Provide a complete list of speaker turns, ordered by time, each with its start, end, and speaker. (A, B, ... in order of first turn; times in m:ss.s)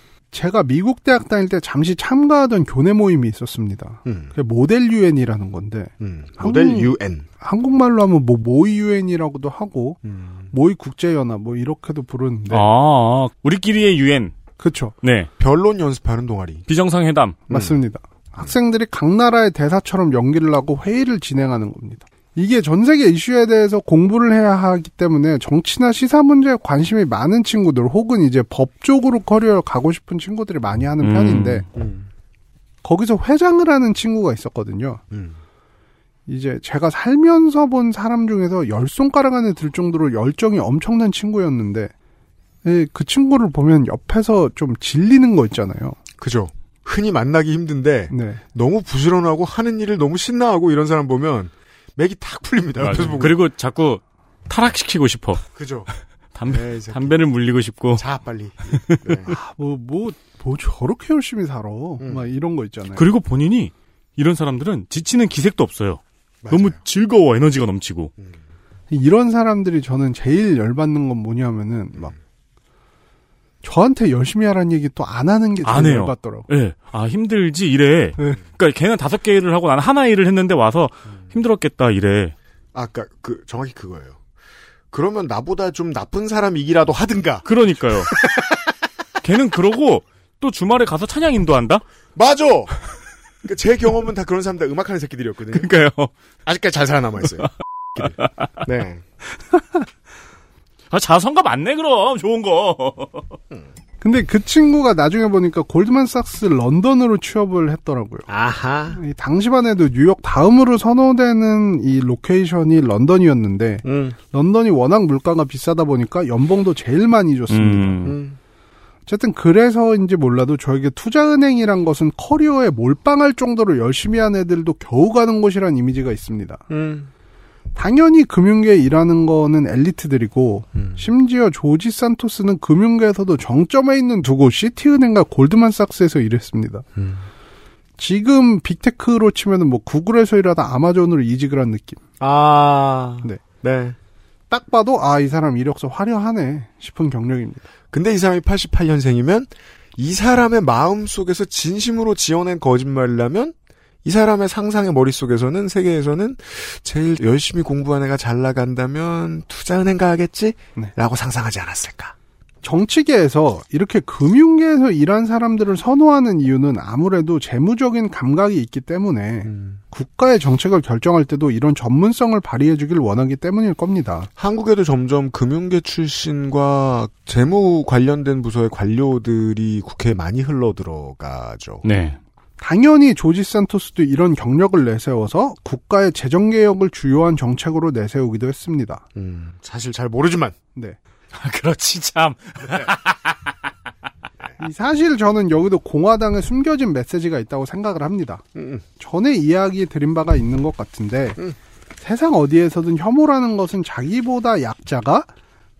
0:00.3-0:10.0 A
0:04.0-0:04.3 B
0:06.0-0:07.3 B
0:10.0-0:10.5 B
0:10.5-0:12.7 A
0:12.5-0:14.3 C
0:14.6-0:14.9 A
0:15.0-0:15.3 C
0:15.4-0:16.6 B
0:16.7-0:17.4 C
0:17.5-0:31.6 A
0:17.5-0:17.8 B
0:31.0-0:31.6 C
0:31.7-0:32.1 B
0:32.8-0:35.0 A
0:35.1-0:35.4 B
0:36.3-0:41.9 A
0:42.6-0:46.0 A
0:46.2-0:53.4 B
0:48.1-0:48.4 A
0:52.8-0:55.4 C
0:55.5-0:55.9 B
0:56.3-0:58.0 C
0:56.5-0:57.2 B
0:57.9-0:59.3 B
0:58.7-0:59.2 C
0:59.3-1:03.0 A
1:02.0-1:02.2 B
1:02.9-1:08.1 C
1:06.4-1:06.8 B
1:08.9-1:12.1 A
1:13.6-1:16.5 A
1:15.6-1:22.4 C
1:22.7-1:24.2 B
1:24.9-1:28.7 B
1:27.4-1:28.1 C
1:29.2-1:31.8 C
1:32.1-1:32.9 B
1:33.4-1:35.7 B
1:35.5-1:36.1 C
1:36.4-1:39.0 B
1:40.9-1:43.2 C
1:44.0-1:48.3 A
1:48.3-1:49.0 B
1:48.9-1:58.1 A
1:53.8-1:54.2 B
1:57.5-1:58.2 C
1:58.0-1:58.4 B
1:59.1-2:06.6 A
2:06.7-2:07.1 B
2:07.8-2:16.8 A
2:10.7-2:11.1 B
2:17.0-2:17.2 B
2:18.0-2:22.0 A
2:22.2-2:24.0 B
2:24.5-2:27.7 A
2:27.9-2:42.1 B
2:42.6-2:54.3 A
2:49.4-2:49.8 B
2:54.4-3:01.8 B
3:01.8-3:02.2 C
3:02.6-3:09.0 A
3:09.1-3:10.6 B
3:11.4-3:12.8 C
3:14.6-3:18.4 A
3:18.6-3:18.8 B
3:19.0-3:21.4 A
3:22.0-3:25.3 A